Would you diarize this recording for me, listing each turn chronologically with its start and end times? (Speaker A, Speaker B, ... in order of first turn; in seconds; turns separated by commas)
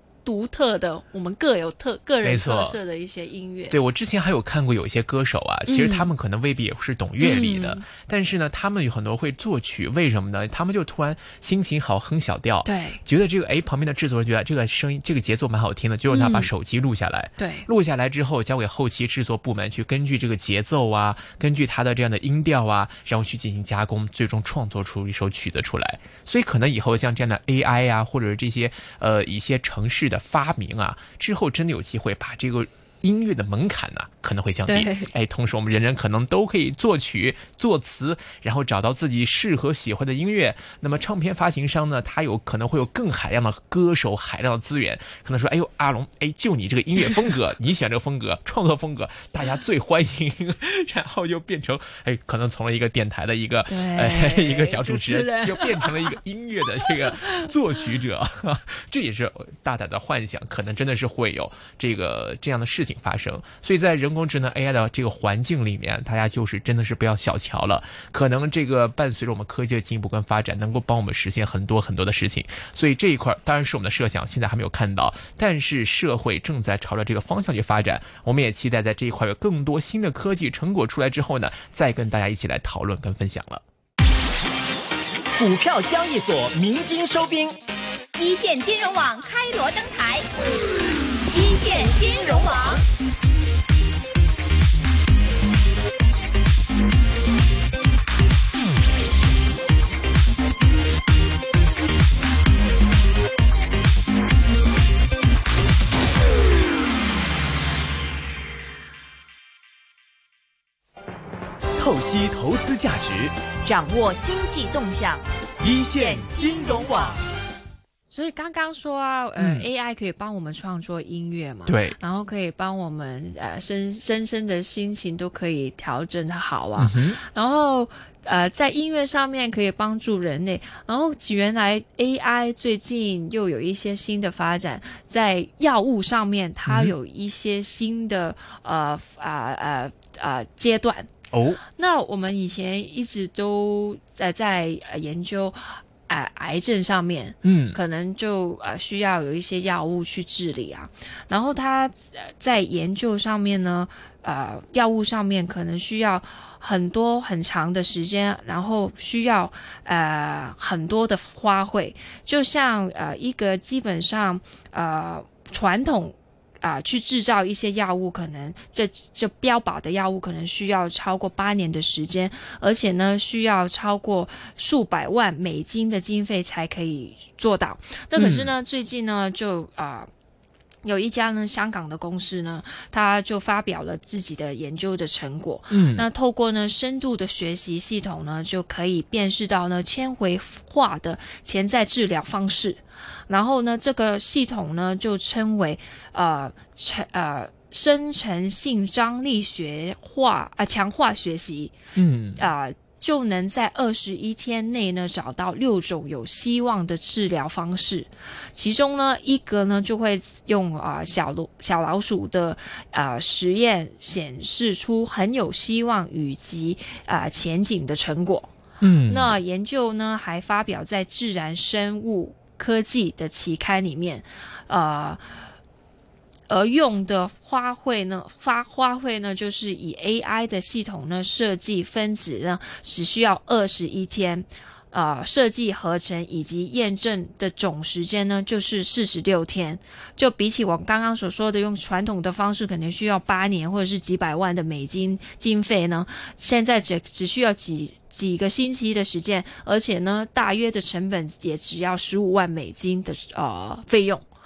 Speaker A: 0.2-3.8, Speaker B: 2.2-2.8, Speaker B: 3.7-83.6, Speaker A: 5.7-6.1, Speaker A: 7.2-7.8, Speaker A: 12.7-13.0, Speaker A: 16.1-16.5, Speaker A: 17.4-17.7, Speaker A: 34.7-35.1, Speaker A: 53.7-56.2, Speaker A: 56.9-57.5, Speaker C: 85.4-87.6, Speaker D: 88.2-90.3, Speaker D: 91.3-92.8, Speaker C: 111.8-113.4, Speaker E: 113.6-115.2, Speaker C: 115.6-117.2, Speaker E: 116.0-116.9, Speaker A: 118.1-141.1, Speaker B: 119.4-119.7, Speaker B: 121.7-122.0, Speaker B: 126.8-127.2, Speaker B: 136.7-136.9, Speaker B: 141.3-141.6, Speaker A: 141.7-180.1, Speaker B: 147.4-147.8, Speaker B: 178.2-178.5, Speaker A: 180.8-201.7, Speaker B: 185.7-186.1, Speaker B: 201.9-202.4, Speaker A: 202.4-218.5, Speaker B: 218.8-219.3, Speaker A: 219.1-225.2, Speaker A: 226.5-254.3